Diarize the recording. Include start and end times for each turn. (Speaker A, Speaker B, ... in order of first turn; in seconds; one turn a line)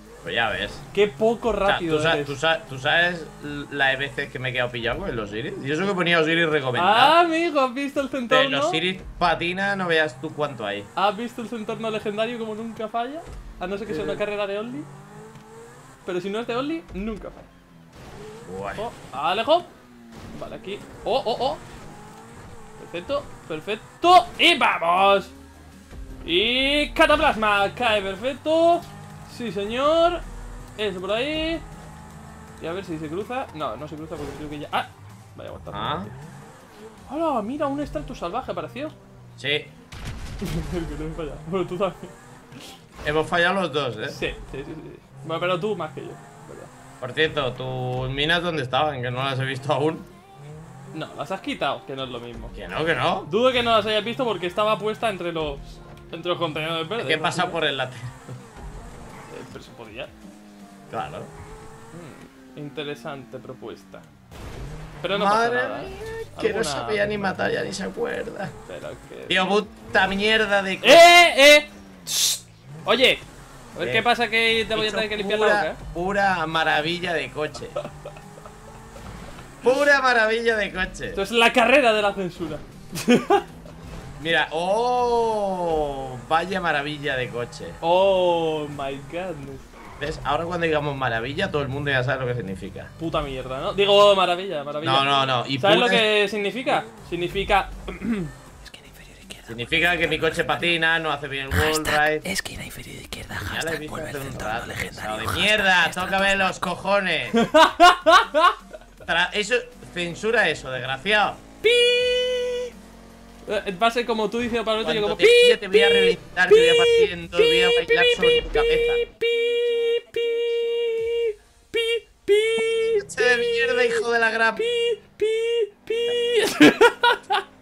Speaker A: 0.2-0.9
Speaker B: 0.9-2.4
Speaker A: 1.7-7.2
Speaker B: 6.8-8.8
Speaker A: 8.3-10.9
Speaker B: 11.0-14.9
Speaker A: 13.9-14.2
Speaker B: 16.1-17.4
Speaker A: 18.4-18.9
Speaker B: 18.8-19.7
Speaker B: 20.3-21.6
Speaker B: 22.8-25.3
Speaker B: 26.2-30.2
Speaker B: 30.8-31.6
Speaker B: 32.6-36.1
Speaker A: 35.7-36.1
Speaker B: 37.1-39.0
Speaker A: 39.4-39.7
Speaker B: 40.4-42.1
Speaker A: 43.0-44.2
Speaker B: 44.1-46.7
Speaker A: 47.0-50.1
Speaker B: 50.9-52.5
Speaker A: 52.5-53.3
Speaker B: 53.3-57.6
Speaker A: 57.0-58.2
Speaker B: 59.3-60.1
Speaker A: 60.9-61.3
Speaker B: 61.9-64.0
Speaker B: 65.0-67.3
Speaker A: 65.1-68.5
Speaker B: 68.7-69.6
Speaker A: 69.3-71.0
Speaker B: 70.8-73.2
Speaker B: 73.7-75.8
Speaker A: 73.8-74.1
Speaker A: 74.7-77.8
Speaker A: 79.6-81.2
Speaker B: 81.1-83.5
Speaker A: 84.2-87.8
Speaker B: 87.8-89.7
Speaker A: 90.0-92.9
Speaker B: 93.0-95.1
Speaker A: 94.8-96.1
Speaker B: 95.6-98.3
Speaker C: 98.7-99.5
Speaker A: 99.5-102.3
Speaker C: 101.5-106.5
Speaker A: 103.4-107.4
Speaker B: 107.4-108.5
Speaker A: 109.0-111.4
Speaker B: 111.6-112.7
Speaker B: 113.5-124.0
Speaker A: 114.8-119.0
Speaker A: 122.9-124.7
Speaker B: 124.6-127.4